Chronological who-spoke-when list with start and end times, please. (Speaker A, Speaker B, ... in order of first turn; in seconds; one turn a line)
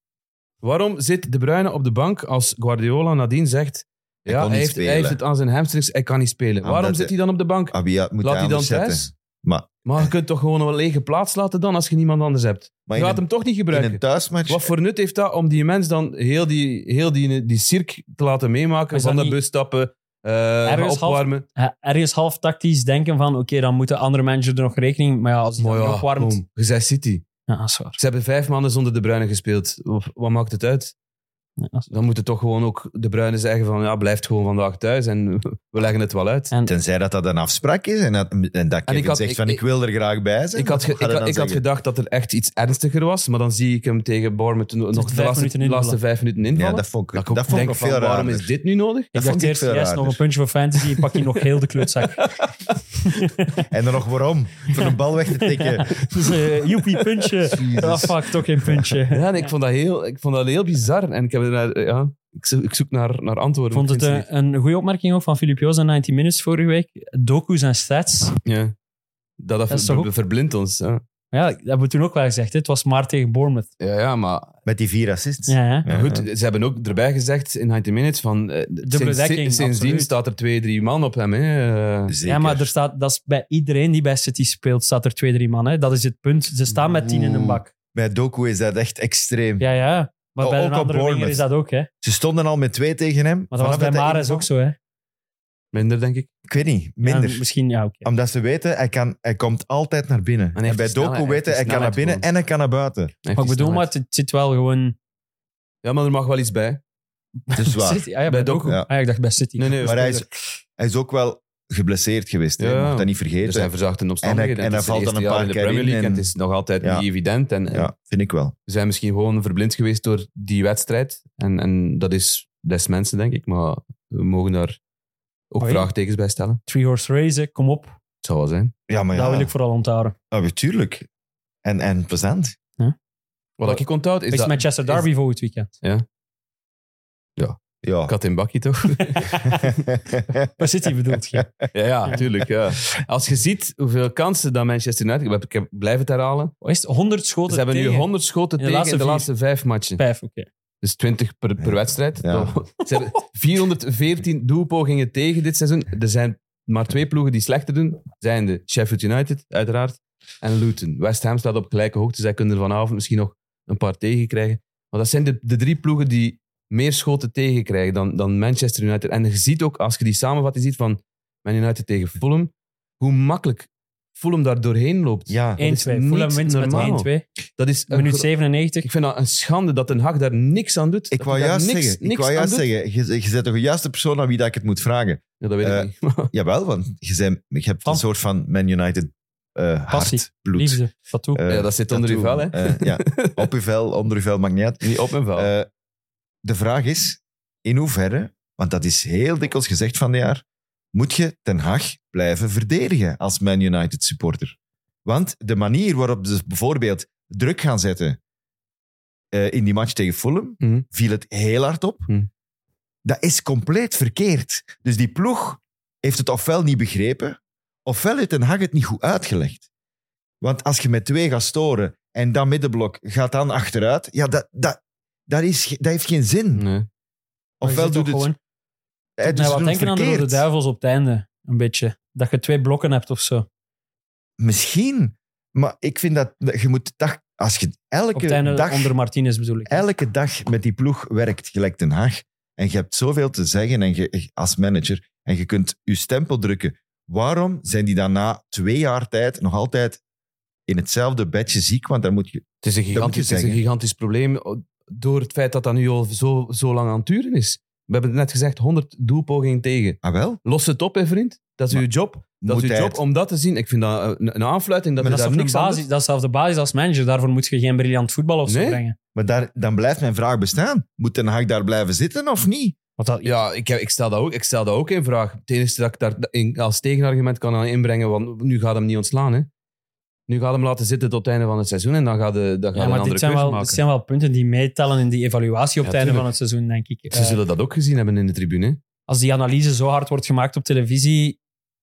Speaker A: 0.6-9.1
Speaker B: 4.3-5.2
Speaker B: 6.6-7.1
Speaker B: 7.7-10.1
Speaker A: 9.8-21.4
Speaker B: 12.9-14.7
Speaker C: 18.9-19.4
Speaker C: 20.6-26.4
Speaker A: 25.6-27.3
Speaker C: 27.5-28.0
Speaker A: 28.0-30.9
Speaker C: 31.6-31.9
Speaker A: 31.9-36.5
Speaker B: 36.6-41.6
Speaker A: 38.9-39.6
Speaker A: 40.5-49.1
Speaker C: 44.9-46.0
Speaker B: 46.5-48.5
Speaker B: 49.1-50.2
Speaker C: 49.1-52.2
Speaker A: 52.0-52.8
Speaker C: 53.0-53.7
Speaker B: 53.7-56.0
Speaker C: 55.4-59.5
Speaker B: 57.5-59.0
Speaker A: 59.1-64.3
Speaker C: 63.7-68.3
Speaker A: 68.5-68.7
Speaker A: 69.4-71.0
Speaker C: 69.7-70.1
Speaker C: 71.3-73.7
Speaker A: 73.8-74.5
Speaker B: 74.7-76.2
Speaker C: 75.5-75.8
Speaker A: 75.9-82.2
Speaker C: 78.8-80.1
Speaker B: 82.1-82.7
Speaker C: 82.3-87.7
Speaker B: 87.1-89.7
Speaker C: 89.6-91.9
Speaker B: 90.4-91.4
Speaker B: 92.0-94.5
Speaker C: 93.5-94.8
Speaker A: 95.7-96.3
Speaker B: 96.5-97.5
Speaker C: 97.0-98.1
Speaker B: 98.0-103.1
Speaker A: 100.6-102.3
Speaker A: 103.2-103.9
Speaker C: 103.4-105.0
Speaker A: 105.8-106.8
Speaker C: 107.5-110.3
Speaker B: 107.5-108.1
Speaker A: 108.3-108.8
Speaker A: 109.6-110.0
Speaker B: 109.8-113.7
Speaker A: 112.6-117.9
Speaker B: 114.2-116.3
Speaker B: 117.7-118.5
Speaker A: 118.7-124.8
Speaker A: 125.5-126.6
Speaker C: 125.6-125.9
Speaker C: 126.7-128.0
Speaker A: 128.2-128.8
Speaker B: 128.9-129.5
Speaker C: 129.1-130.1
Speaker B: 130.3-131.1
Speaker B: 131.6-132.6
Speaker A: 133.6-135.1
Speaker C: 134.3-135.7
Speaker A: 137.4-139.5
Speaker B: 137.8-138.1
Speaker C: 139.2-139.6
Speaker B: 139.6-140.5
Speaker C: 140.6-141.5
Speaker B: 141.3-141.7
Speaker A: 141.7-146.5
Speaker C: 146.6-148.1
Speaker A: 147.5-150.0
Speaker C: 148.6-149.3
Speaker C: 150.0-150.5
Speaker A: 150.8-178.3
Speaker B: 151.6-152.6
Speaker B: 175.3-175.6
Speaker C: 175.6-177.2
Speaker C: 177.9-178.9
Speaker A: 178.8-182.7
Speaker B: 181.1-190.8
Speaker A: 185.4-186.3
Speaker C: 189.9-191.4
Speaker B: 191.3-195.7
Speaker A: 191.5-193.5
Speaker A: 194.8-195.5
Speaker B: 196.4-208.2
Speaker B: 209.3-212.1
Speaker A: 210.6-210.9
Speaker B: 213.1-219.7
Speaker B: 220.4-226.7
Speaker A: 226.6-226.9
Speaker B: 227.6-228.3
Speaker C: 227.6-228.4
Speaker B: 229.2-230.4
Speaker C: 229.2-233.5
Speaker B: 234.4-238.9
Speaker C: 238.1-239.9
Speaker B: 239.7-250.0
Speaker B: 250.7-253.6
Speaker A: 252.6-265.9
Speaker B: 260.0-260.4
Speaker B: 262.4-263.0
Speaker C: 265.0-269.0
Speaker A: 268.5-268.8
Speaker B: 269.1-272.8
Speaker C: 273.0-273.4
Speaker A: 273.2-279.5
Speaker A: 280.3-283.8
Speaker C: 282.8-287.4
Speaker A: 285.8-286.3
Speaker A: 287.1-288.8
Speaker C: 289.1-291.4